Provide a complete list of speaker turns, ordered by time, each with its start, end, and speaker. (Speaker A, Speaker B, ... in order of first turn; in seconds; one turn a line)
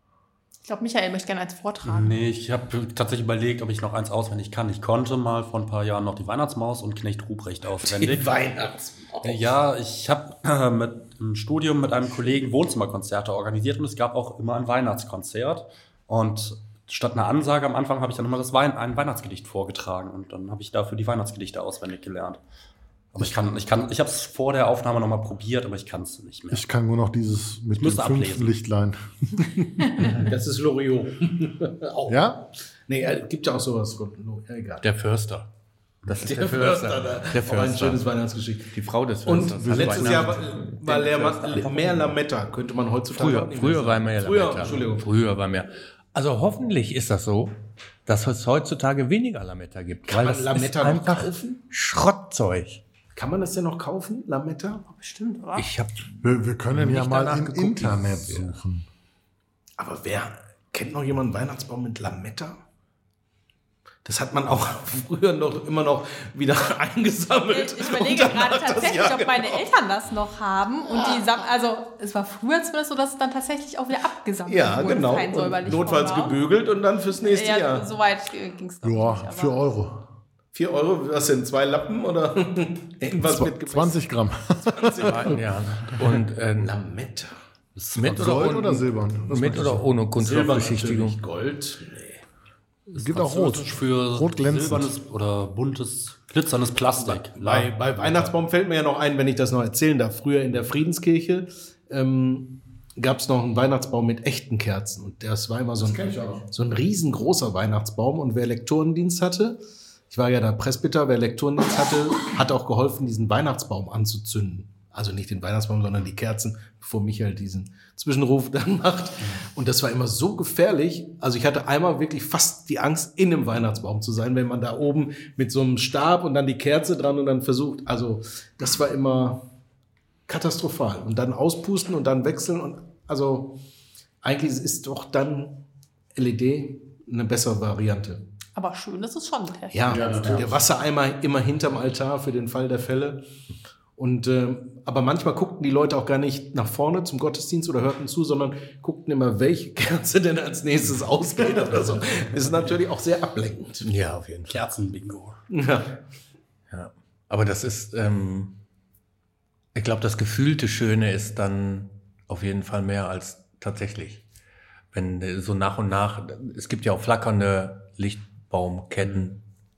Speaker A: 0.6-2.2
Speaker B: 1.8-8.3
Speaker C: 7.8-9.5
Speaker B: 9.2-22.4
Speaker B: 23.1-26.6
Speaker D: 26.5-30.1
Speaker B: 27.8-28.5
Speaker C: 30.0-32.2
Speaker D: 32.1-32.5
Speaker C: 32.9-34.8
Speaker E: 34.8-35.5
Speaker E: 36.0-38.1
Speaker C: 36.1-45.1
Speaker E: 38.7-42.0
Speaker D: 39.6-40.3
Speaker E: 43.1-52.8
Speaker C: 50.1-51.6
Speaker C: 53.1-54.8
Speaker A: 54.9-55.7
Speaker E: 55.5-58.5
Speaker D: 56.2-58.9
Speaker C: 59.8-62.6
Speaker C: 64.0-69.7
Speaker A: 67.5-76.4
Speaker C: 74.5-77.9
Speaker A: 77.2-79.6
Speaker D: 78.8-80.1
Speaker C: 80.5-84.0
Speaker D: 83.2-85.3
Speaker C: 84.6-85.4
Speaker E: 85.0-86.7
Speaker C: 86.0-87.3
Speaker B: 87.7-88.5
Speaker E: 87.9-91.2
Speaker D: 88.0-89.9
Speaker C: 90.2-92.2
Speaker D: 92.9-94.9
Speaker B: 92.9-98.3
Speaker C: 97.0-129.4
Speaker D: 105.8-106.5
Speaker C: 130.3-133.6
Speaker C: 134.2-135.6
Speaker C: 136.1-138.3
Speaker A: 138.5-140.2
Speaker C: 139.7-143.3
Speaker D: 139.9-140.6
Speaker C: 144.0-153.9
Speaker E: 153.8-154.5
Speaker B: 154.5-155.4
Speaker C: 155.5-156.0
Speaker E: 156.7-158.6
Speaker E: 159.7-164.2
Speaker E: 164.9-169.4